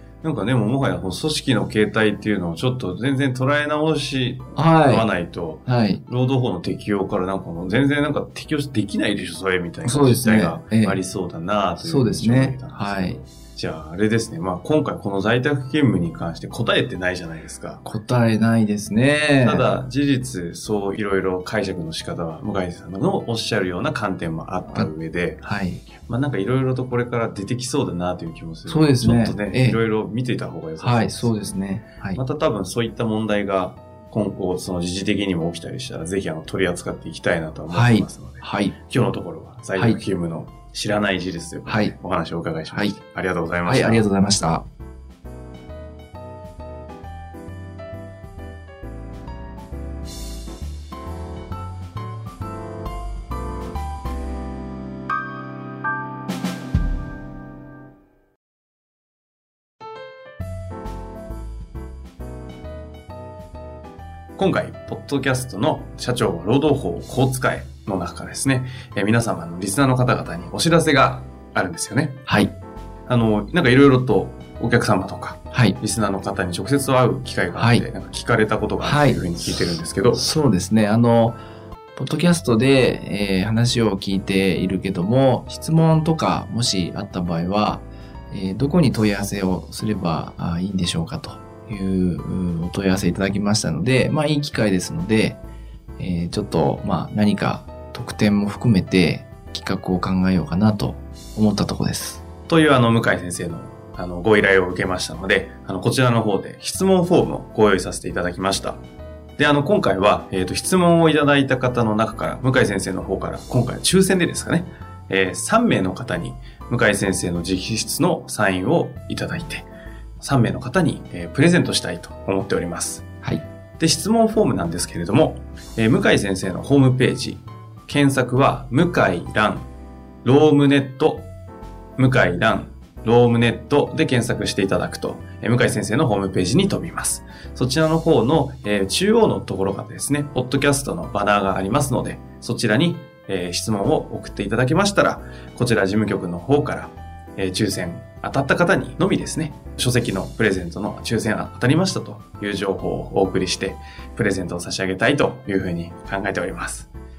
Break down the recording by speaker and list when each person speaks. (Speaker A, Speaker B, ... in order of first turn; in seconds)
Speaker A: 0.2-17.8, 19.4-25.4, 26.0-31.4, 32.1-44.0, 64.4-72.2, 73.1-80.3, 102.5-108.8, 109.4-119.7, 120.2-123.0, 123.8-129.7, 130.2-131.3, 132.0-156.9
Speaker B: 4.5-5.1, 5.6-6.0, 9.8-11.0, 11.8-13.2, 17.9-19.7, 24.7-25.8, 28.6-29.8, 30.8-32.2, 37.7-38.8, 39.8-40.0, 41.6-41.9, 42.7-43.0, 43.6-44.6, 72.3-72.5, 75.5-75.8, 77.5-77.9, 78.8-79.2, 80.1-81.4, 82.0-95.4, 96.0-102.2